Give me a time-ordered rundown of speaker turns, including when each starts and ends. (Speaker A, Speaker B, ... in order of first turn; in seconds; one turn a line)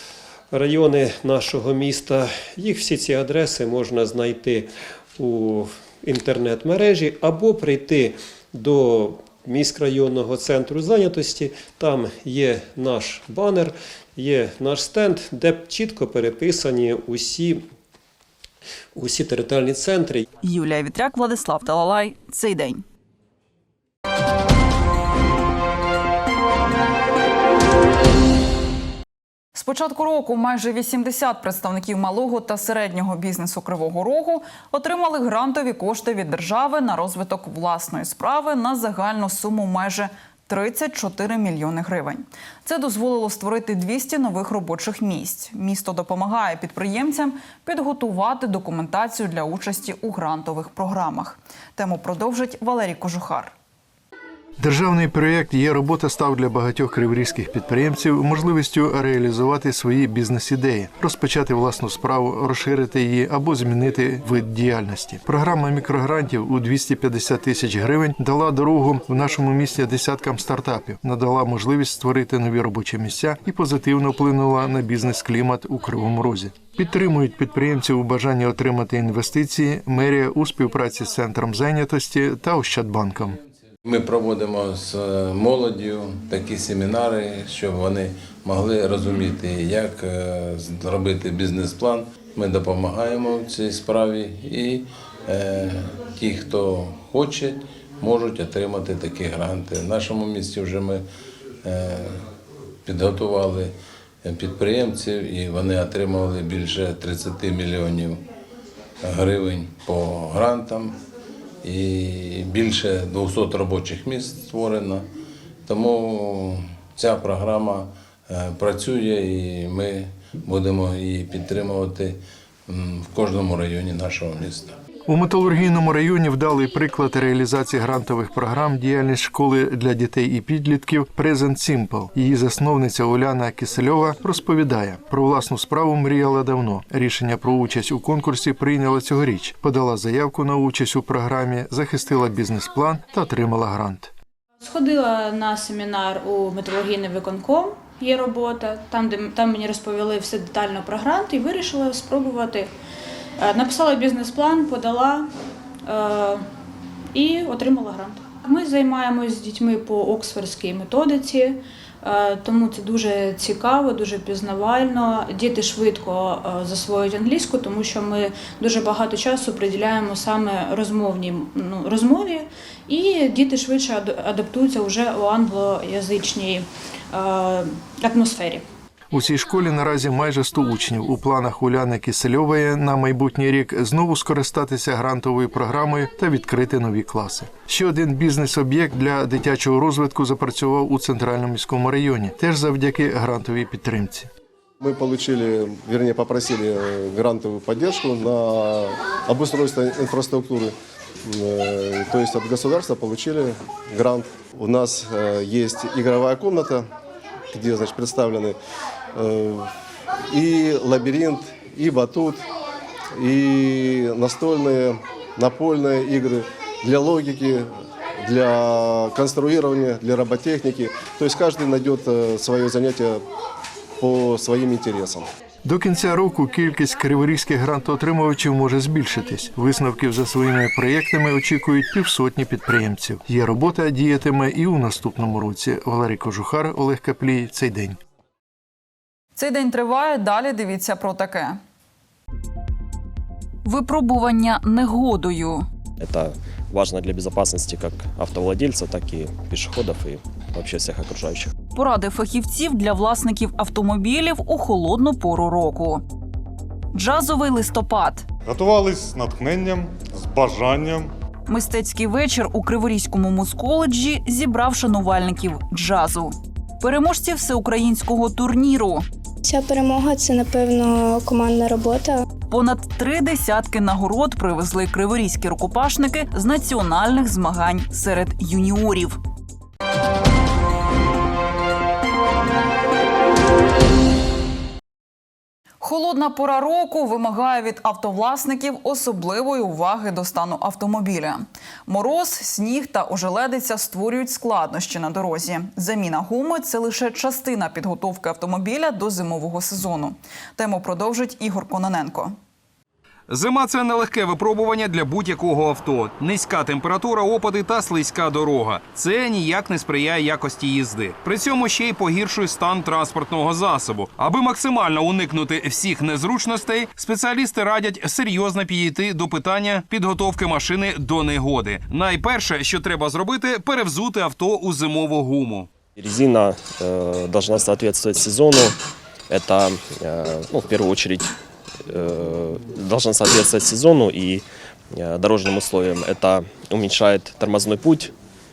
Speaker A: 0.5-17.6
Speaker A: 18.9-20.2
Speaker B: 20.4-22.8
Speaker B: 29.5-53.5
Speaker C: 54.6-83.4
Speaker D: 83.8-101.0
Speaker D: 101.6-102.2
Speaker D: 102.8-108.2
Speaker D: 109.0-111.0
Speaker D: 111.6-115.0
Speaker D: 115.7-124.8
Speaker C: 125.1-144.1
Speaker E: 144.6-152.7
Speaker E: 153.4-155.3
Speaker E: 155.8-156.5
Speaker E: 157.1-178.6
Speaker C: 179.1-194.3
Speaker F: 194.8-206.8
Speaker F: 207.5-208.6
Speaker F: 209.1-209.7
Speaker F: 210.3-212.4
Speaker F: 213.1-217.7
Speaker F: 218.2-223.2
Speaker F: 224.0-225.3
Speaker C: 225.6-238.0
Speaker B: 239.3-241.6
Speaker B: 243.6-245.7
Speaker G: 246.0-251.5
Speaker B: 251.7-256.0
Speaker B: 256.9-258.2
Speaker H: 258.4-261.1
Speaker B: 261.5-269.0
Speaker I: 269.4-272.2
Speaker B: 272.5-279.2
Speaker B: 285.8-302.4
Speaker J: 303.3-325.7
Speaker G: 325.9-328.8
Speaker G: 329.3-331.3
Speaker G: 331.8-338.1